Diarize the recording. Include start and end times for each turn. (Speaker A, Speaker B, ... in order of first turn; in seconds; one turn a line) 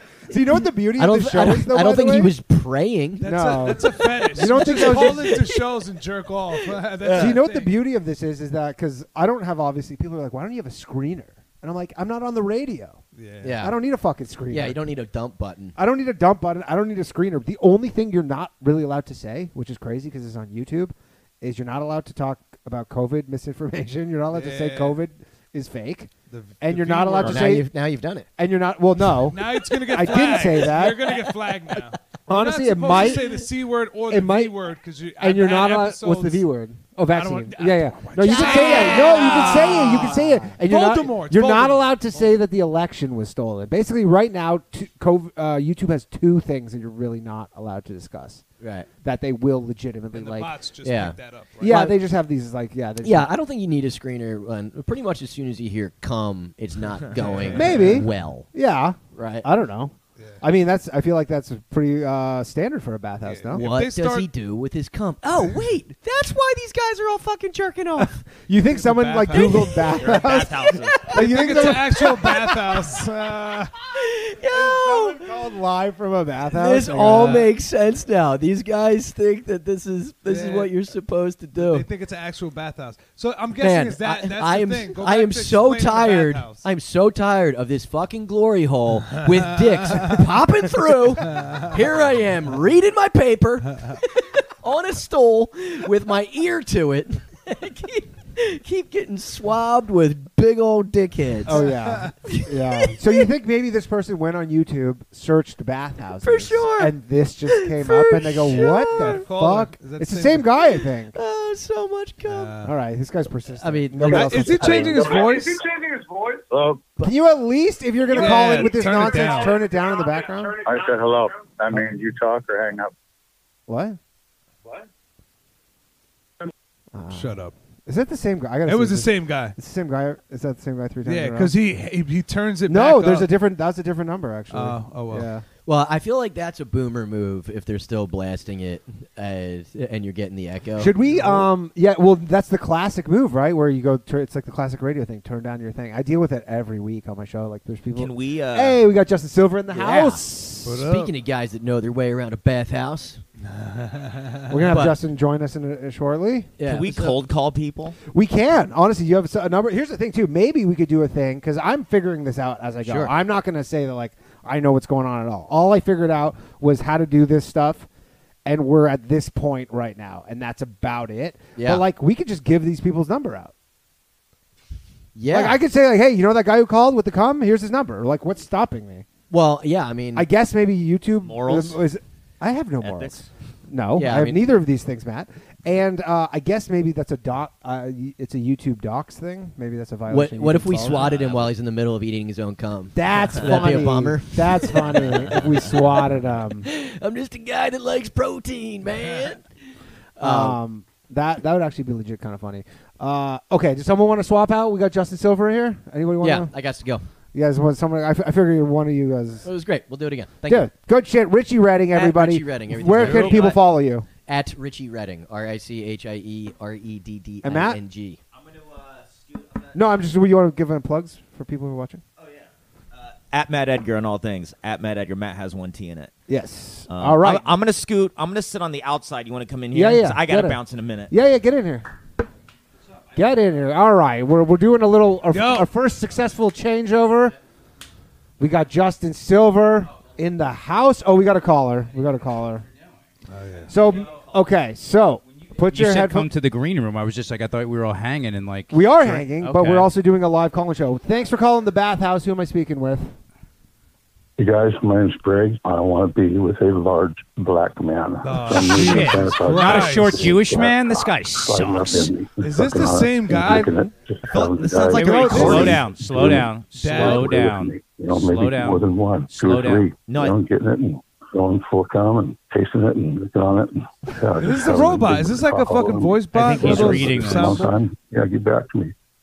Speaker A: 0.3-2.3
Speaker B: 0.3-5.6
Speaker C: 3.2-7.7
Speaker A: 3.2-5.3
Speaker B: 6.5-7.4
Speaker A: 7.1-13.0
Speaker C: 13.2-13.6
Speaker B: 13.4-13.7
Speaker A: 13.6-14.8
Speaker B: 14.5-15.8
Speaker A: 15.8-27.7
Speaker C: 24.3-24.9
Speaker C: 26.3-27.5
Speaker B: 27.2-28.3
Speaker A: 28.4-31.1
Speaker C: 29.3-36.4
Speaker A: 32.3-33.3
Speaker A: 34.1-34.5
Speaker A: 35.2-48.4
Speaker C: 37.1-42.3
Speaker B: 38.2-40.3
Speaker B: 48.6-48.9
Speaker A: 49.0-50.5
Speaker C: 50.1-51.8
Speaker B: 50.8-52.0
Speaker A: 51.6-53.3
Speaker B: 53.0-58.5
Speaker C: 57.2-58.1
Speaker A: 57.5-63.6
Speaker B: 59.1-59.5
Speaker C: 63.2-64.3
Speaker B: 63.5-68.3
Speaker A: 68.5-72.5
Speaker C: 68.7-70.4
Speaker B: 69.3-70.0
Speaker D: 70.0-71.2
Speaker B: 70.6-72.3
Speaker C: 71.1-73.7
Speaker B: 73.9-75.2
Speaker A: 74.5-77.4
Speaker B: 76.5-81.8
Speaker C: 80.2-80.8
Speaker C: 81.6-86.7
Speaker B: 83.6-101.7
Speaker C: 89.3-90.3
Speaker C: 91.3-91.8
Speaker A: 101.5-111.2
Speaker C: 101.6-102.1
Speaker B: 102.2-103.1
Speaker B: 106.2-107.0
Speaker B: 107.5-109.2
Speaker C: 108.8-110.5
Speaker B: 111.1-112.5
Speaker C: 112.2-112.7
Speaker A: 112.6-115.0
Speaker B: 113.6-115.2
Speaker C: 114.1-115.6
Speaker E: 116.5-116.8
Speaker A: 117.0-120.6
Speaker C: 118.1-119.6
Speaker E: 120.6-122.9
Speaker A: 123.7-124.0
Speaker A: 126.9-131.5
Speaker C: 127.1-127.5
Speaker C: 128.7-129.6
Speaker C: 131.0-133.3
Speaker A: 132.7-135.4
Speaker C: 134.5-135.3
Speaker B: 135.6-140.9
Speaker A: 140.8-150.8
Speaker C: 141.1-141.4
Speaker D: 147.9-148.8
Speaker B: 149.7-153.2
Speaker C: 150.6-151.1
Speaker C: 153.4-154.7
Speaker A: 154.5-156.5
Speaker B: 154.7-154.9
Speaker B: 156.6-157.2
Speaker D: 156.6-158.0
Speaker A: 158.1-167.9
Speaker B: 162.8-163.1
Speaker A: 168.4-173.5
Speaker B: 171.6-171.8
Speaker B: 175.1-175.6
Speaker A: 175.3-179.1
Speaker B: 179.3-180.3
Speaker A: 180.1-191.1
Speaker D: 181.2-181.8
Speaker D: 182.8-183.3
Speaker B: 183.9-184.4
Speaker B: 190.1-196.0
Speaker D: 190.8-191.5
Speaker A: 192.9-196.7
Speaker B: 196.6-199.4
Speaker B: 200.2-200.6
Speaker A: 200.2-206.5
Speaker B: 206.2-207.1
Speaker A: 207.3-209.5
Speaker B: 209.4-210.7
Speaker A: 210.4-214.1
Speaker B: 211.9-213.6
Speaker C: 212.9-213.4
Speaker B: 214.2-218.2
Speaker A: 217.4-217.8
Speaker D: 218.7-219.5
Speaker A: 219.7-222.0
Speaker D: 222.9-226.1
Speaker A: 226.3-227.5
Speaker D: 226.9-231.1
Speaker A: 229.7-231.9
Speaker A: 233.1-237.4
Speaker C: 235.3-235.7
Speaker A: 238.4-242.7
Speaker C: 243.3-243.7
Speaker A: 243.7-246.3
Speaker F: 245.7-249.9
Speaker A: 248.7-253.2
Speaker G: 254.4-278.9
Speaker C: 258.2-260.4
Speaker F: 258.5-262.1
Speaker C: 262.4-263.7
Speaker D: 264.3-265.7
Speaker C: 264.9-265.8
Speaker F: 265.3-269.9
Speaker C: 266.7-267.5
Speaker D: 270.1-270.3
Speaker C: 274.4-277.7
Speaker F: 276.3-277.7